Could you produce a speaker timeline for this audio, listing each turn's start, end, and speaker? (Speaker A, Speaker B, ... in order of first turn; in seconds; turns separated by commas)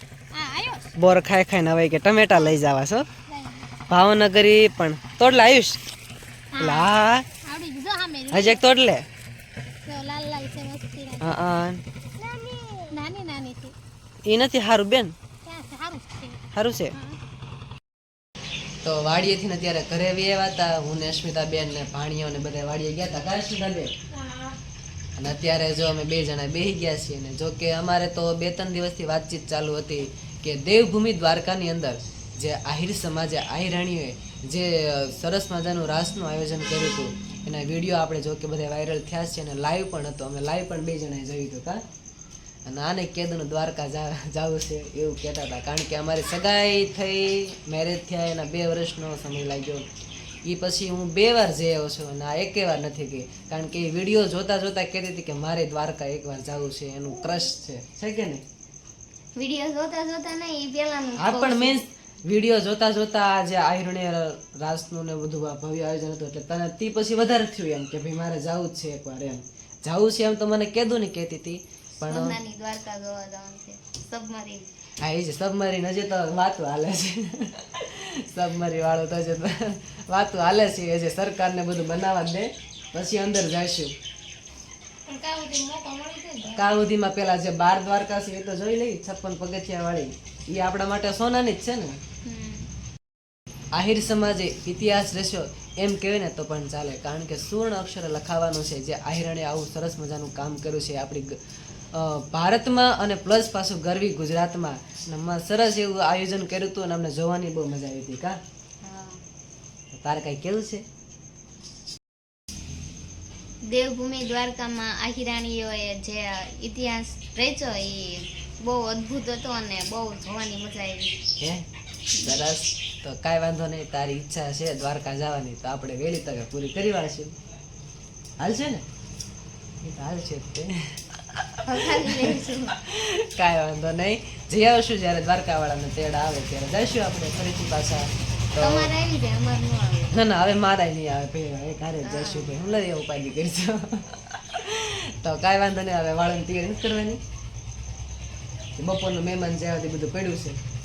Speaker A: 0.3-0.9, Speaker B: 1.0-3.1, Speaker A: 3.3-3.7, Speaker B: 3.9-5.8, Speaker A: 6.5-8.6, Speaker B: 6.6-7.3, Speaker B: 8.3-9.1, Speaker A: 9.8-11.3, Speaker B: 11.2-11.8, Speaker A: 12.8-13.8, Speaker B: 14.2-15.2, Speaker A: 15.4-17.2, Speaker B: 16.5-16.9, Speaker B: 18.8-23.9, Speaker A: 24.1-24.6, Speaker B: 25.2-41.8, Speaker B: 42.6-49.9, Speaker B: 50.5-58.4, Speaker C: 59.4-61.8, Speaker B: 61.2-72.4, Speaker C: 72.0-74.7, Speaker B: 75.0-83.9, Speaker A: 85.1-86.7, Speaker B: 86.6-92.0, Speaker C: 92.2-92.7, Speaker B: 93.7-101.4, Speaker B: 101.9-108.4, Speaker C: 108.8-109.2, Speaker B: 109.9-110.8, Speaker C: 113.7-121.1, Speaker B: 122.2-127.3, Speaker B: 128.4-128.8, Speaker B: 129.8-132.3, Speaker C: 131.7-132.8, Speaker B: 132.8-138.9, Speaker C: 138.6-140.2, Speaker B: 140.1-147.2, Speaker C: 142.0-142.5, Speaker B: 148.8-150.6